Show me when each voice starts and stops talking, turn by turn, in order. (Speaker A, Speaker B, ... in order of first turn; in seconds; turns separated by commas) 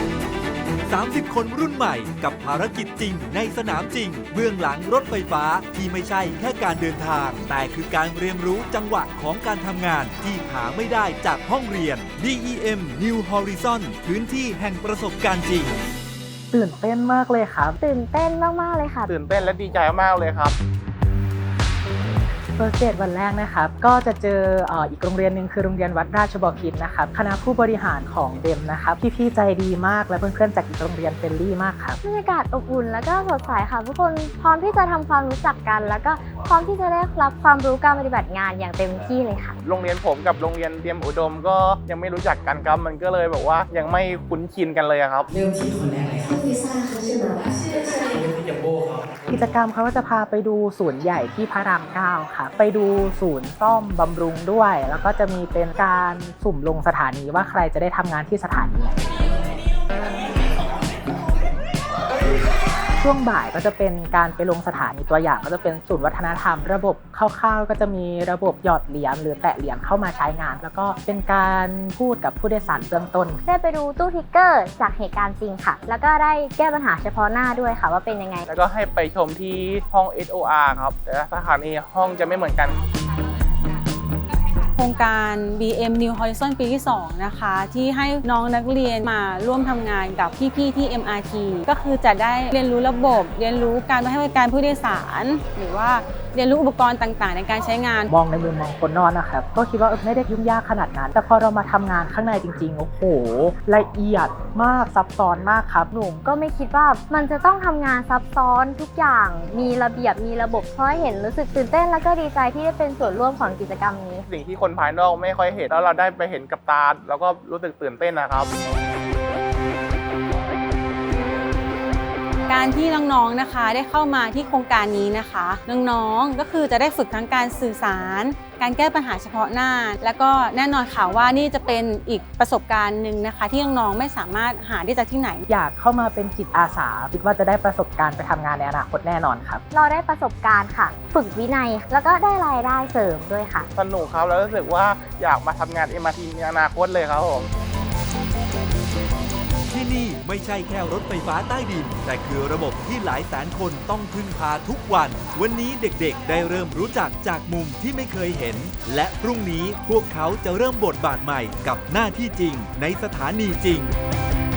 Speaker A: 0.9-15.8, Speaker B: 16.5-17.8, Speaker C: 17.8-19.1, Speaker D: 19.1-20.5, Speaker B: 22.6-32.0, Speaker C: 32.0-39.5, Speaker D: 39.6-45.3, Speaker E: 45.3-48.2, Speaker B: 49.3-59.0, Speaker B: 63.0-73.4, Speaker C: 73.5-78.5, Speaker D: 78.5-82.8, Speaker F: 84.7-98.1, Speaker B: 98.1-105.9, Speaker C: 105.9-114.2, Speaker D: 114.3-118.5, Speaker F: 122.5-135.4, Speaker B: 135.5-139.6, Speaker C: 139.7-143.7, Speaker D: 143.7-147.5, Speaker A: 149.7-163.9